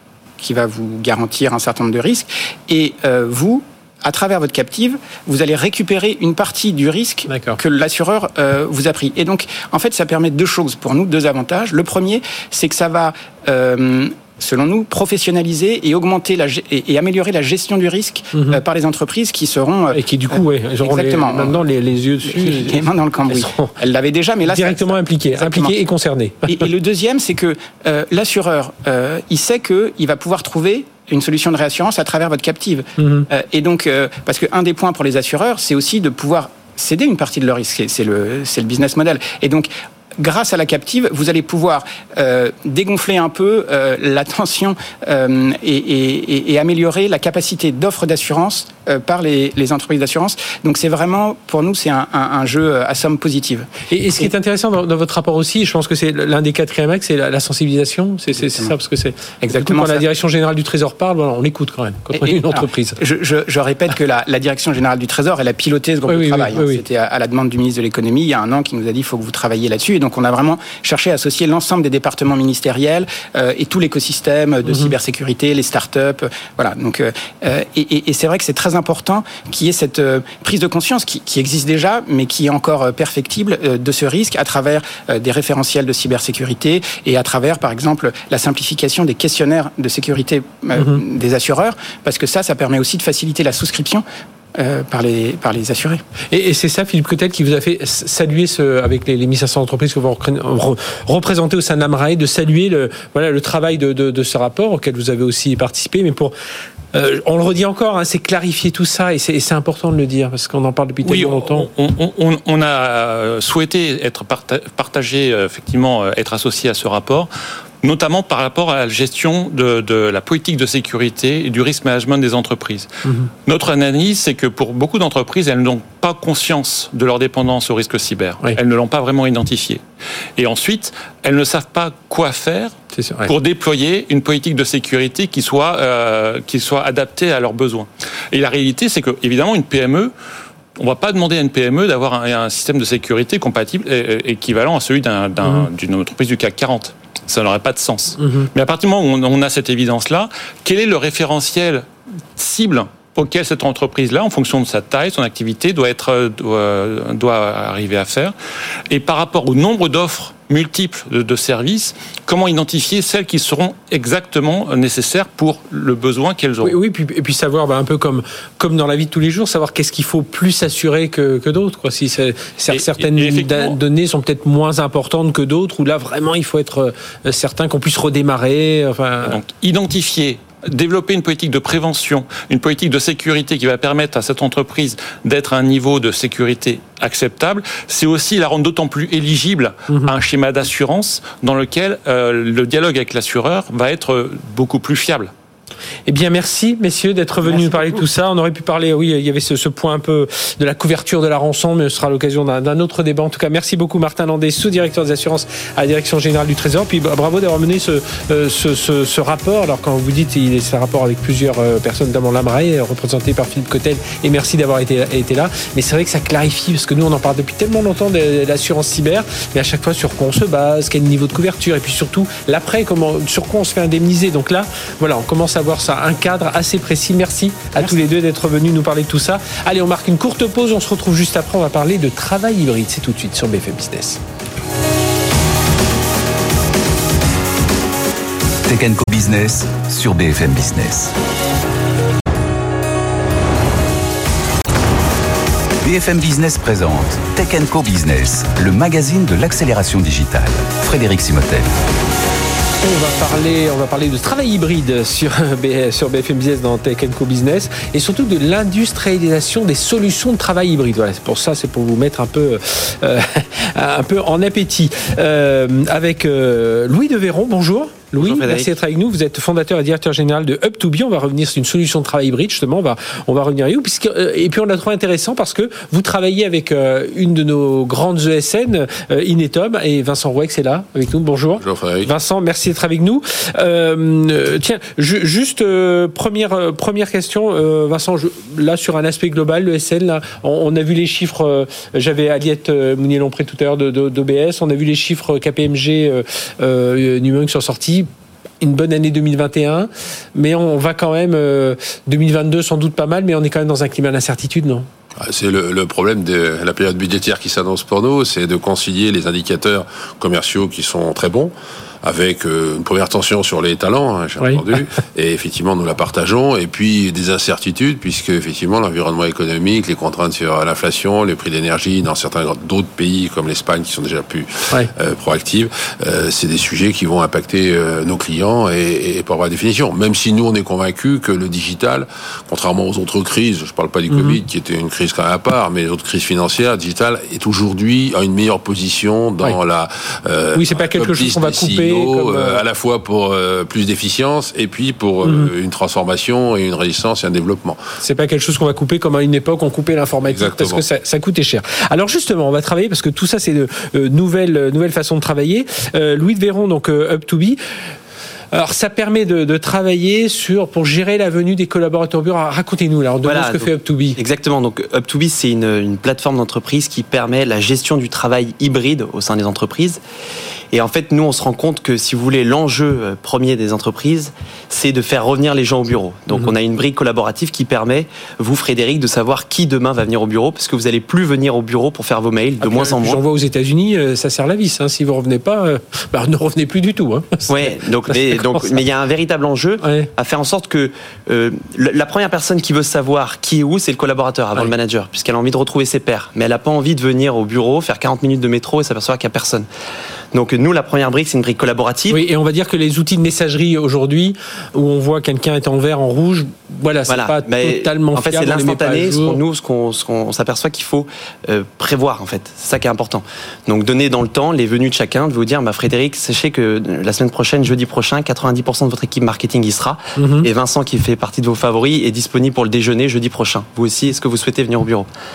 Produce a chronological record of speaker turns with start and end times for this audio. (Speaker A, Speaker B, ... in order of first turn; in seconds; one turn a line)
Speaker A: 0.4-21.6
Speaker B: 7.3-7.6
Speaker B: 18.3-18.6
Speaker B: 19.9-23.7
Speaker A: 22.2-25.7
Speaker B: 24.4-26.7
Speaker A: 26.5-53.7
Speaker B: 33.0-33.3
Speaker B: 53.9-63.0
Speaker A: 58.4-58.7
Speaker A: 59.5-60.0
Speaker A: 62.1-96.0
Speaker B: 66.1-66.8
Speaker B: 74.6-74.9
Speaker B: 90.7-91.0
Speaker B: 96.3-106.3
Speaker B: 106.9-111.7
Speaker C: 111.0-117.3
Speaker C: 117.8-122.9
Speaker C: 123.5-129.8
Speaker C: 130.4-132.7
Speaker B: 132.9-133.3
Speaker C: 133.2-140.1
Speaker C: 140.8-151.8
Speaker B: 145.4-145.7
Speaker B: 148.2-148.5
Speaker C: 152.4-158.3
Speaker C: 158.9-166.8
Speaker B: 166.6-179.4
Speaker C: 172.7-173.8
Speaker C: 179.2-195.3
Speaker B: 196.1-234.2
Speaker D: 238.7-241.1
Speaker D: 245.8-251.7
Speaker B: 252.8-298.1
Speaker E: 268.2-268.7
Speaker F: 281.6-282.1
Speaker B: 298.6-304.9
Speaker F: 305.2-347.8
Speaker B: 334.1-334.4
Speaker B: 340.5-342.6
Speaker B: 345.2-345.5
Speaker B: 348.0-357.6
Speaker F: 350.2-350.8
Speaker B: 358.5-364.2
Speaker E: 363.2-370.0
Speaker E: 370.7-383.2
Speaker B: 382.6-388.8
Speaker E: 387.5-399.7
Speaker B: 389.8-390.1
Speaker E: 400.3-402.2
Speaker B: 402.1-409.4
Speaker E: 407.1-425.1
Speaker B: 420.1-420.5